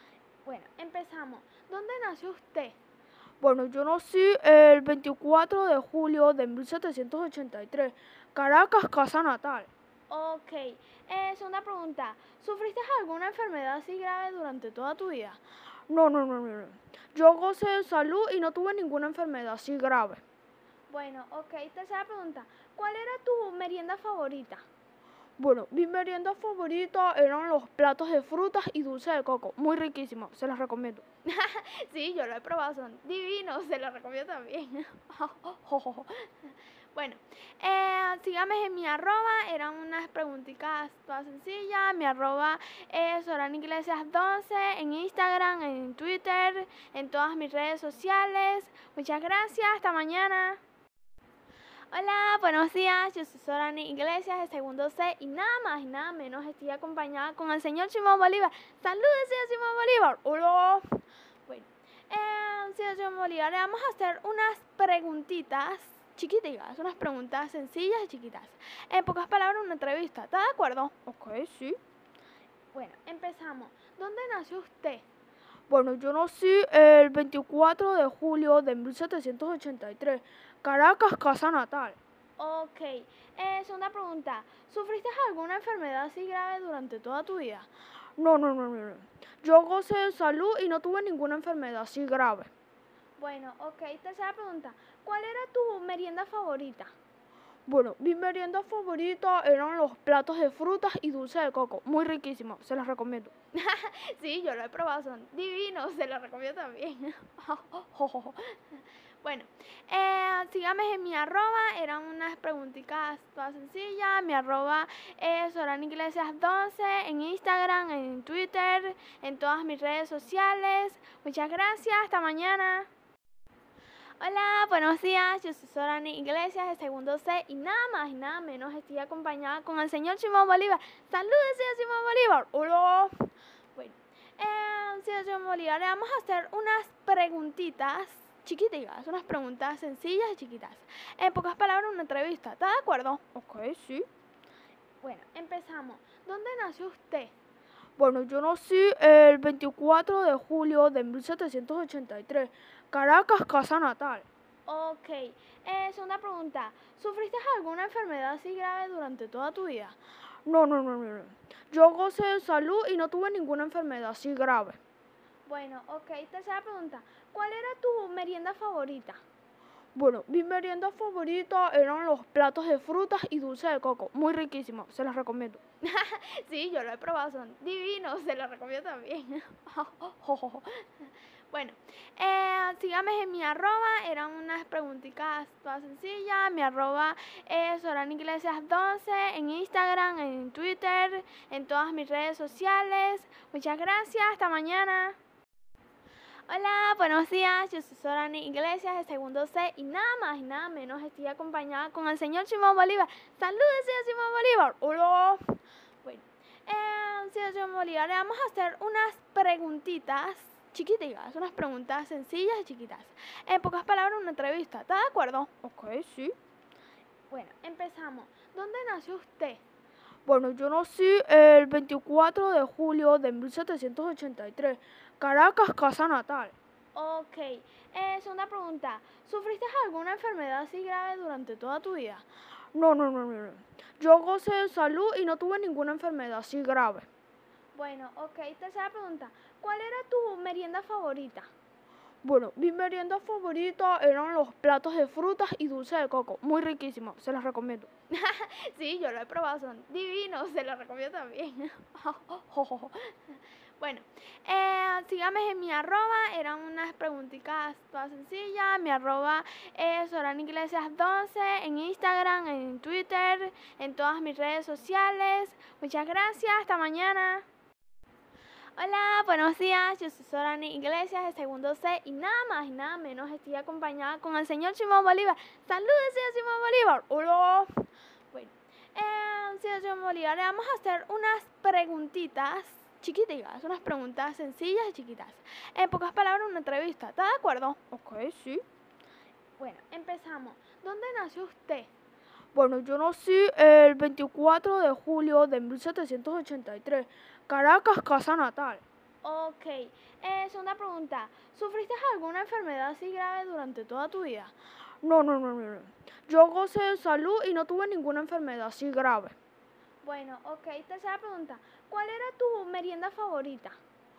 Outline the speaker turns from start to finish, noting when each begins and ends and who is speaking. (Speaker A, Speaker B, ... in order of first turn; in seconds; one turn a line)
Speaker A: 0.4-2.8
Speaker B: 3.4-9.7
Speaker A: 10.1-15.4
Speaker B: 15.9-20.2
Speaker A: 20.9-24.6
Speaker B: 25.4-31.0
Speaker A: 31.2-50.6
Speaker A: 51.9-70.9
Speaker B: 71.1-71.8
Speaker A: 72.7-75.0
Speaker B: 75.7-82.0
Speaker A: 82.4-87.7
Speaker B: 88.2-92.5
Speaker A: 93.2-96.9
Speaker B: 97.7-103.3
Speaker A: 103.5-122.9
Speaker A: 124.2-143.2
Speaker B: 143.3-144.1
Speaker A: 145.0-147.3
Speaker B: 148.0-154.3
Speaker A: 154.7-160.0
Speaker B: 160.4-164.8
Speaker A: 165.4-169.2
Speaker B: 169.9-175.6
Speaker A: 175.8-195.2
Speaker A: 196.5-215.5
Speaker B: 215.6-216.3
Speaker A: 217.3-219.6
Speaker B: 220.2-226.5
Speaker A: 226.9-232.2
Speaker B: 232.7-237.1
Speaker A: 237.7-241.5
Speaker B: 242.2-247.9
Speaker A: 248.1-267.4
Speaker A: 268.8-287.8
Speaker B: 287.9-288.6
Speaker A: 289.6-291.9
Speaker B: 292.5-298.8
Speaker A: 299.2-304.5
Speaker B: 305.0-309.3
Speaker A: 310.0-313.8